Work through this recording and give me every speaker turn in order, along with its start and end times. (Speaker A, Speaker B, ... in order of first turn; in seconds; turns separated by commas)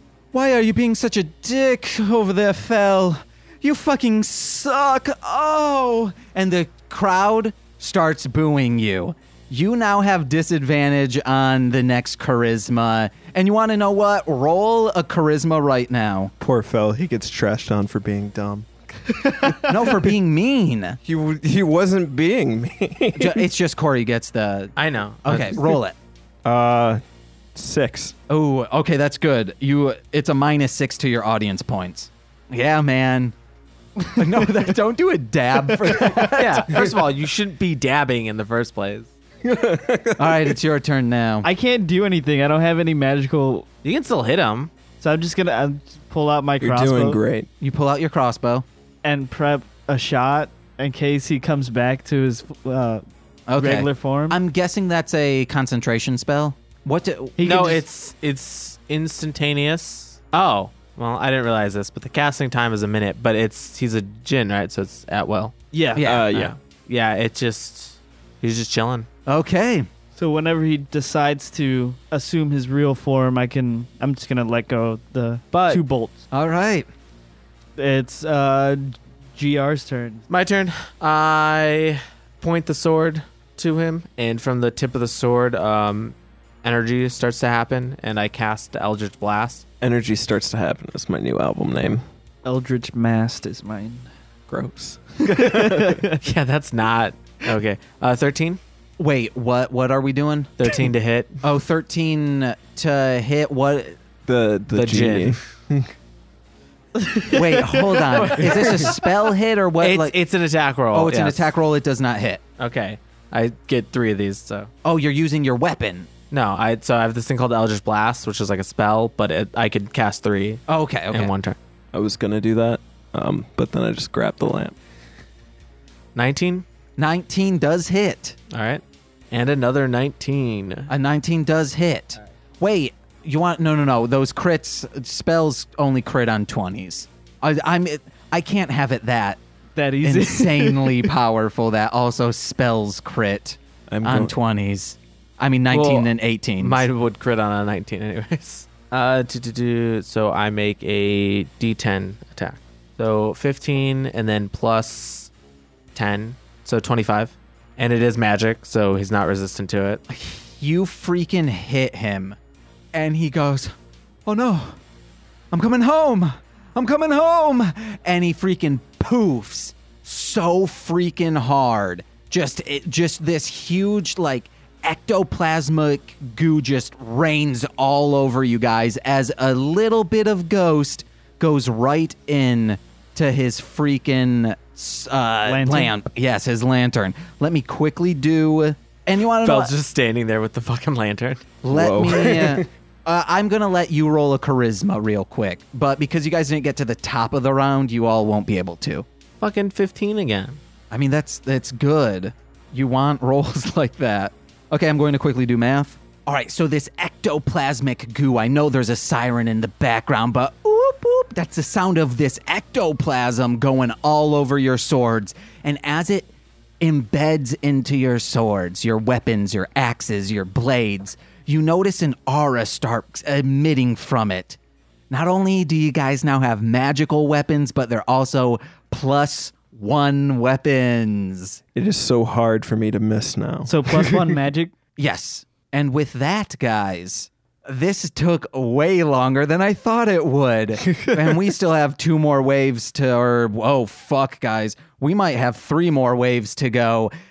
Speaker A: 0.3-16.3, Speaker B: 16.4-20.1, Speaker A: 19.7-21.0, Speaker B: 21.1-23.4, Speaker A: 23.2-24.7, Speaker C: 24.8-25.7, Speaker A: 25.2-26.0, Speaker B: 26.4-27.0, Speaker B: 27.6-28.1, Speaker A: 28.3-33.4, Speaker A: 34.1-36.9, Speaker B: 35.9-36.9, Speaker C: 36.3-39.1, Speaker B: 39.4-40.6, Speaker A: 40.2-41.5, Speaker D: 41.4-43.7, Speaker C: 43.8-44.7, Speaker D: 45.0-47.2, Speaker B: 46.6-47.5, Speaker A: 47.6-48.6, Speaker D: 49.0-53.0, Speaker A: 53.5-57.7, Speaker D: 53.6-54.4, Speaker D: 57.4-57.8, Speaker C: 57.4-65.8, Speaker D: 65.7-66.0, Speaker A: 66.0-66.3, Speaker B: 66.0-66.6, Speaker C: 66.3-69.1, Speaker A: 69.3-69.9, Speaker D: 70.2-76.2, Speaker A: 76.3-76.9, Speaker D: 77.8-80.2, Speaker C: 80.3-89.6, Speaker B: 89.8-92.0, Speaker D: 92.4-94.1, Speaker B: 94.5-96.0, Speaker D: 95.2-96.2, Speaker C: 96.2-98.6, Speaker A: 99.0-100.5, Speaker C: 100.6-101.3, Speaker A: 101.4-104.0, Speaker B: 104.3-105.9, Speaker C: 104.7-105.4, Speaker D: 107.0-108.3, Speaker A: 107.3-110.1, Speaker C: 108.2-109.0, Speaker B: 108.5-108.8, Speaker C: 109.8-111.5, Speaker A: 110.9-112.4, Speaker C: 112.6-114.7, Speaker A: 114.8-116.1, Speaker C: 116.3-121.6, Speaker A: 120.7-121.3, Speaker B: 121.9-124.8, Speaker C: 126.2-126.7, Speaker A: 127.0-128.4, Speaker C: 128.5-130.9, Speaker A: 130.9-139.4, Speaker D: 139.8-141.1, Speaker A: 140.0-146.9, Speaker B: 143.9-144.4, Speaker C: 145.7-155.3, Speaker C: 155.9-160.0, Speaker A: 160.1-162.4, Speaker A: 162.9-163.7, Speaker A: 164.3-164.8, Speaker A: 165.5-189.7, Speaker D: 185.5-185.9, Speaker C: 189.4-191.5, Speaker A: 191.6-199.1, Speaker B: 191.7-192.7, Speaker C: 199.4-200.6, Speaker A: 200.9-224.6, Speaker A: 225.1-231.6, Speaker B: 231.8-234.3, Speaker D: 233.7-234.7, Speaker A: 235.0-247.1, Speaker B: 240.9-241.3